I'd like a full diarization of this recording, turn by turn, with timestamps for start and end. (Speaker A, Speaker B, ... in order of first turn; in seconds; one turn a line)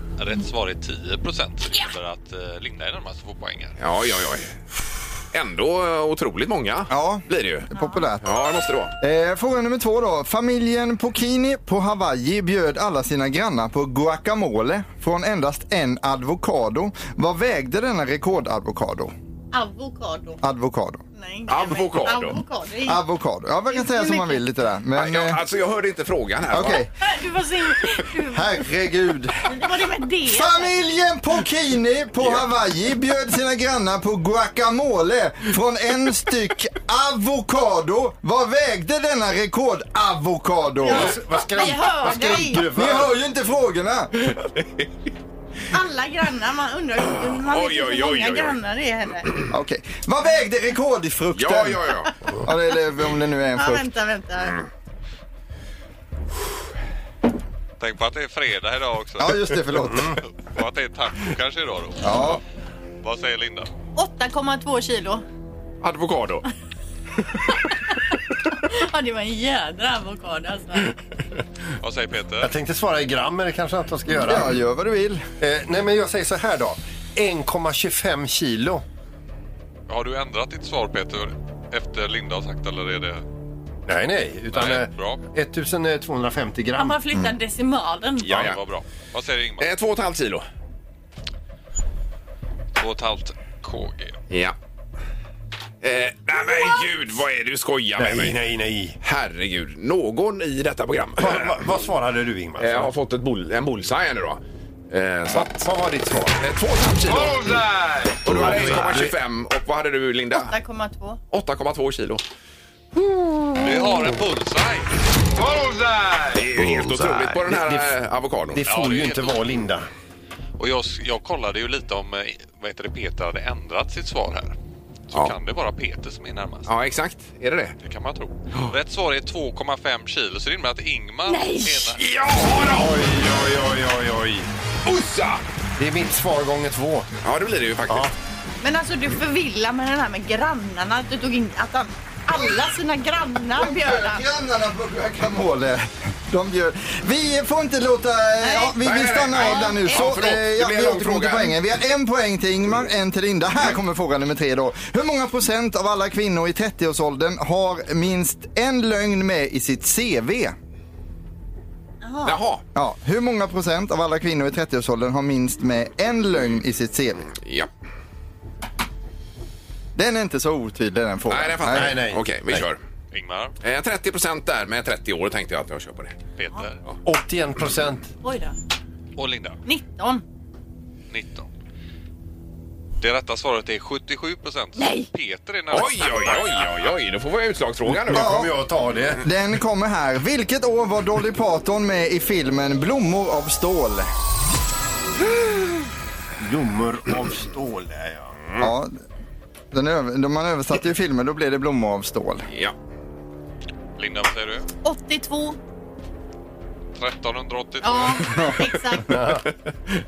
Speaker A: 0.2-3.7
Speaker B: 3.8-4.5
Speaker B: 5.3-7.7
Speaker C: 6.9-8.3
Speaker D: 7.7-8.1
Speaker B: 8.2-8.9
Speaker C: 9.0-19.1
Speaker D: 19.5-20.4
Speaker C: 20.4-21.0
Speaker D: 21.1-23.0
Speaker B: 21.5-22.4
Speaker C: 22.9-25.4
Speaker D: 23.7-24.4
Speaker B: 24.9-26.8
Speaker C: 26.5-26.9
Speaker D: 27.0-28.5
Speaker C: 28.3-29.4
Speaker D: 29.4-30.7
Speaker C: 30.2-41.2
Speaker D: 40.8-42.7
Speaker E: 40.8-43.1
Speaker C: 42.6-44.1
Speaker D: 45.7-49.3
Speaker B: 47.1-48.6
Speaker C: 49.5-53.9
Speaker B: 51.3-52.1
Speaker D: 53.5-54.6
Speaker A: 57.8-62.4
Speaker C: 59.2-60.2
Speaker C: 62.0-62.4
Speaker A: 63.0-63.7
Speaker D: 64.0-65.2
Speaker B: 65.8-66.4
Speaker D: 68.6-70.9
Speaker A: 71.8-72.5
Speaker E: 72.4-74.6
Speaker C: 74.2-75.2
Speaker E: 75.4-78.8
Speaker A: 79.9-83.2
Speaker E: 83.9-87.2
Speaker A: 84.5-85.2
Speaker D: 86.8-88.3
Speaker A: 88.2-89.7
Speaker B: 88.3-88.6
Speaker B: 89.6-90.5
Speaker A: 92.8-94.2
Speaker B: 94.3-94.5
Speaker B: 95.8-98.4
Speaker E: 98.0-99.0
Speaker B: 99.0-101.7
Speaker E: 101.2-102.9
Speaker B: 102.6-105.7
Speaker E: 105.3-106.4
Speaker B: 106.3-107.6
Speaker B: 108.2-110.5
Speaker E: 108.2-109.1
Speaker D: 110.3-111.2
Speaker B: 111.3-112.2
Speaker A: 113.6-114.9
Speaker B: 116.3-118.6
Speaker E: 116.5-118.0
Speaker E: 118.5-119.9
Speaker A: 118.7-119.4
Speaker A: 120.6-124.5
Speaker A: 125.1-126.7
Speaker B: 126.7-127.8
Speaker A: 127.8-132.0
Speaker B: 131.9-132.9
Speaker E: 132.7-134.5
Speaker B: 134.8-135.4
Speaker E: 135.8-137.1
Speaker B: 137.2-138.1
Speaker D: 138.6-144.2
Speaker C: 143.6-160.5
Speaker D: 148.4-148.8
Speaker B: 148.8-151.6
Speaker D: 149.3-150.1
Speaker D: 162.0-162.4
Speaker B: 162.2-162.6
Speaker C: 162.7-167.3
Speaker B: 167.3-167.7
Speaker C: 169.9-171.9
Speaker B: 171.3-172.8
Speaker E: 171.7-172.7
Speaker A: 173.1-173.5
Speaker B: 173.6-176.2
Speaker A: 176.4-176.8
Speaker E: 177.0-178.1
Speaker D: 178.2-178.5
Speaker A: 179.2-179.6
Speaker D: 179.7-180.2
Speaker A: 181.1-181.5
Speaker A: 183.0-186.7
Speaker D: 184.8-185.1
Speaker B: 185.7-188.3
Speaker E: 187.9-189.2
Speaker C: 188.1-188.6
Speaker C: 189.2-194.1
Speaker E: 196.4-198.3
Speaker C: 198.6-198.9
Speaker C: 199.7-202.4
Speaker A: 204.0-204.7
Speaker D: 204.8-205.6
Speaker A: 206.9-208.6
Speaker D: 207.8-209.2
Speaker E: 209.1-209.4